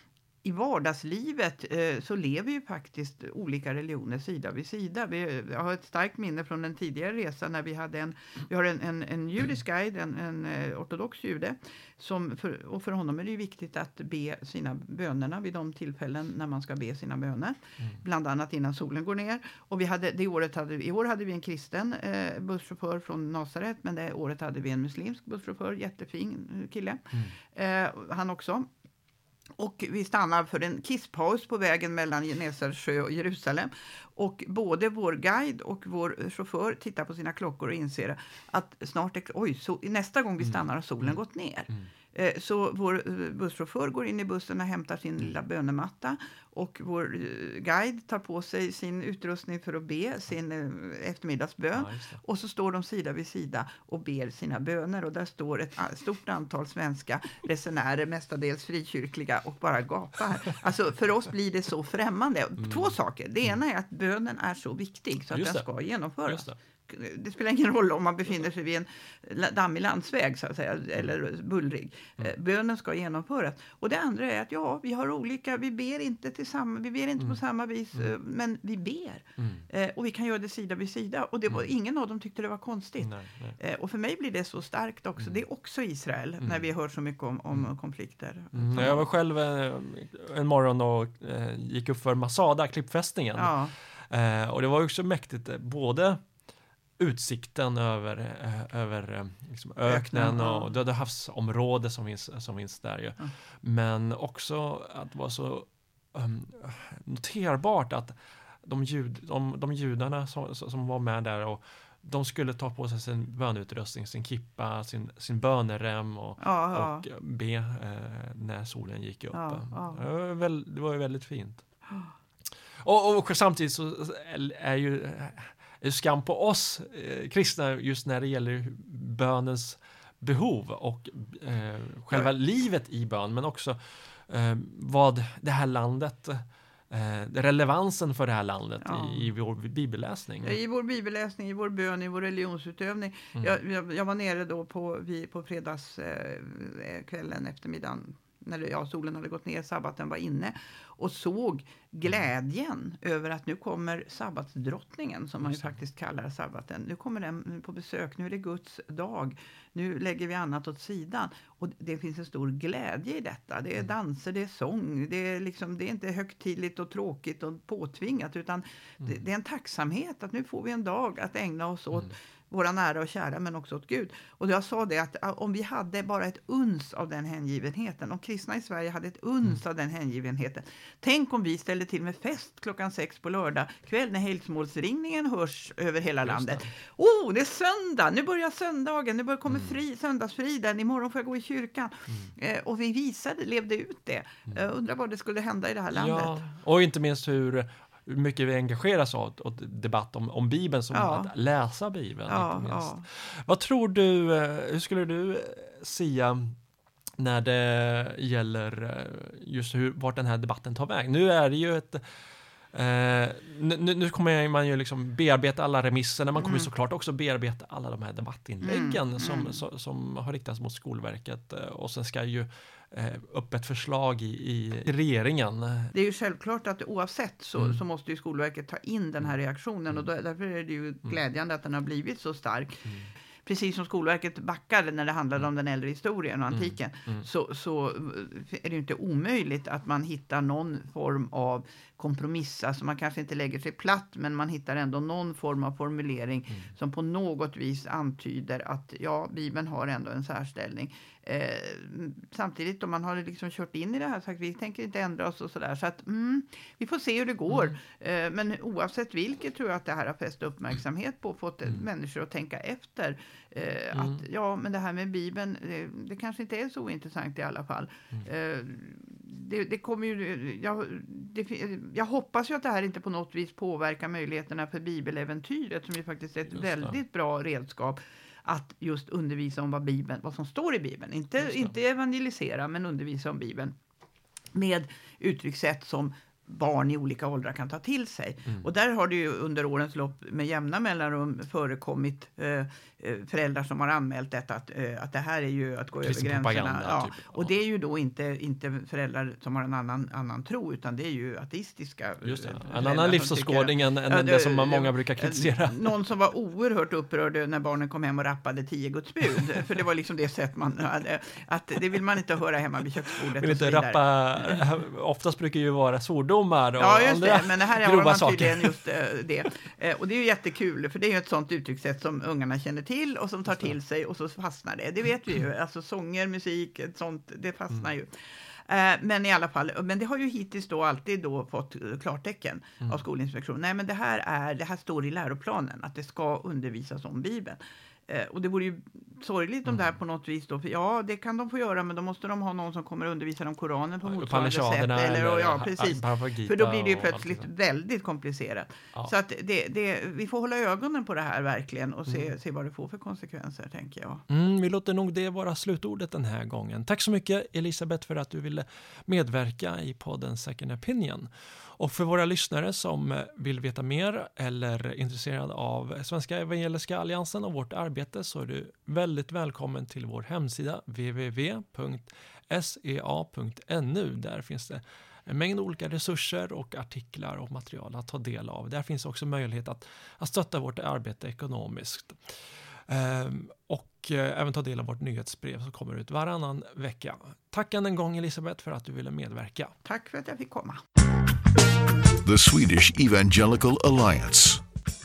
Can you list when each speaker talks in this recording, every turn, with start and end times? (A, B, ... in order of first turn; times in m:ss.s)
0:00.4-0:28.7 A
0:29.6-1:29.0 A
0:51.8-0:52.2 B
1:02.6-1:03.6 B
1:05.3-1:05.7 B
1:06.3-1:06.6 B
1:19.4-1:19.7 B
1:23.0-1:23.6 B
1:28.5-1:33.6 B
1:33.4-1:33.7 A
1:34.1-1:36.2 B
1:37.0-2:01.6 B
1:39.9-1:40.7 A
1:56.4-1:57.0 A
1:59.3-2:00.0 A
2:02.8-2:20.6 B
2:18.8-2:19.3 A
2:20.4-3:16.4 A
2:35.5-2:35.7 B
3:06.2-3:06.7 B
3:09.5-3:09.8 B
3:15.9-3:26.6 B
3:20.9-3:21.3 A
3:22.3-3:23.1 A
3:27.2-3:32.0 B
3:32.7-3:45.9 B
3:36.4-3:36.7 A
3:38.6-3:39.6 A
3:45.9-3:52.8 A
3:53.4-4:43.8 A
3:56.5-3:57.3 B
4:36.6-4:37.0 B
4:41.4-4:41.7 B
4:44.5-5:14.6 A
4:56.0-4:57.5 B
5:02.2-5:05.9 B
5:13.4-5:18.8 B
5:16.8-5:54.2 A
5:44.0-5:47.5 B
5:54.3-6:22.2 B
6:22.9-6:29.7 B
6:29.8-6:30.8 A
6:32.2-6:34.6 C